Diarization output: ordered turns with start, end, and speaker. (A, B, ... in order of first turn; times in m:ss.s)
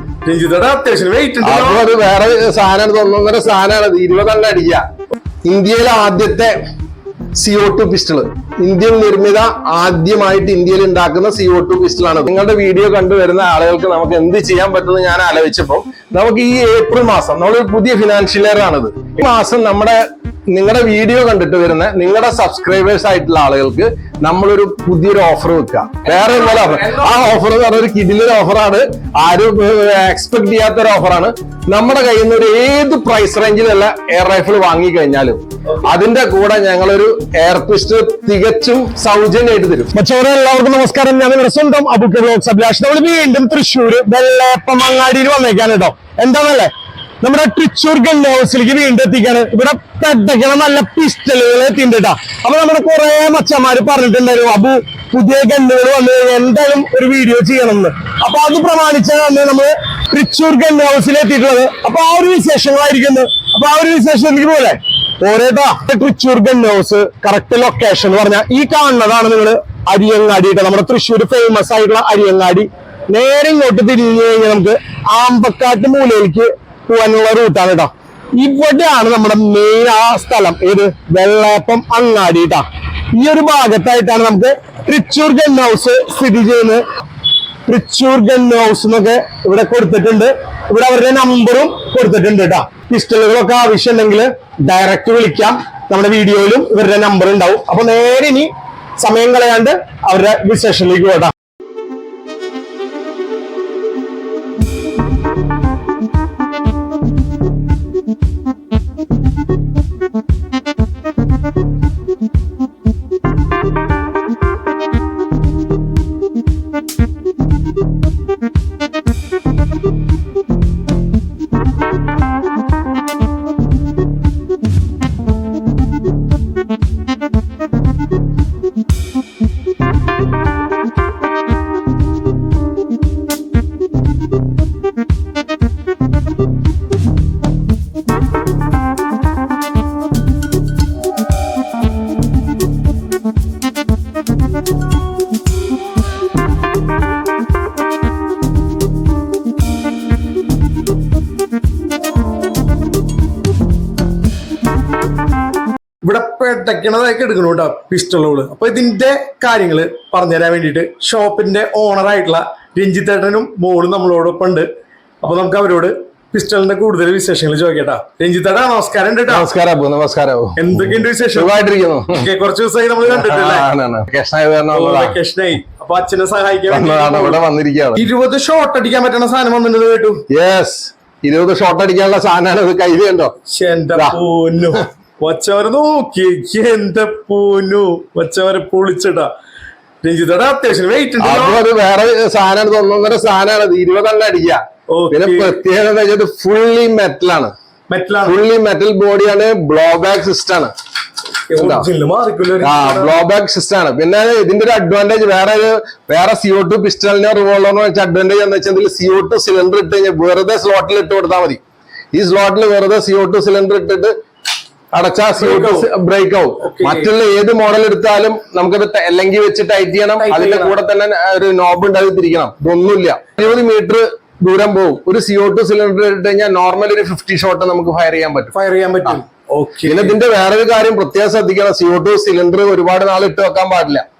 0:00.2-0:01.8 A
0:01.4-0:04.8 B
0:05.4-0:06.6 B
0:07.4-0:39.9 B
0:26.1-0:27.2 A
0:40.0-0:46.7 C
0:47.2-1:26.8 C
1:27.7-1:38.5 C
1:39.0-1:41.3 C
2:36.0-2:44.7 A
2:45.2-2:49.5 A
2:49.3-2:52.3 B
2:50.6-2:51.6 A
2:52.1-2:53.7 A
2:53.1-2:55.2 B
2:54.7-2:57.4 A
2:56.7-2:58.0 B
2:57.9-3:00.2 A
3:00.3-3:03.3 B
3:03.5-3:09.3 A
3:10.0-3:11.6 A
3:11.2-3:17.5 B
3:14.9-3:15.6 A
3:17.9-3:18.4 A
3:18.2-3:20.7 B
3:21.5-3:23.2 A
3:21.6-3:21.9 B
3:22.6-3:31.6 B
3:32.1-3:34.1 B
3:34.9-3:48.5 B
3:35.4-3:35.9 A
3:36.6-3:37.1 A
3:40.2-3:40.7 A
3:48.5-3:50.2 A
3:49.8-3:54.0 B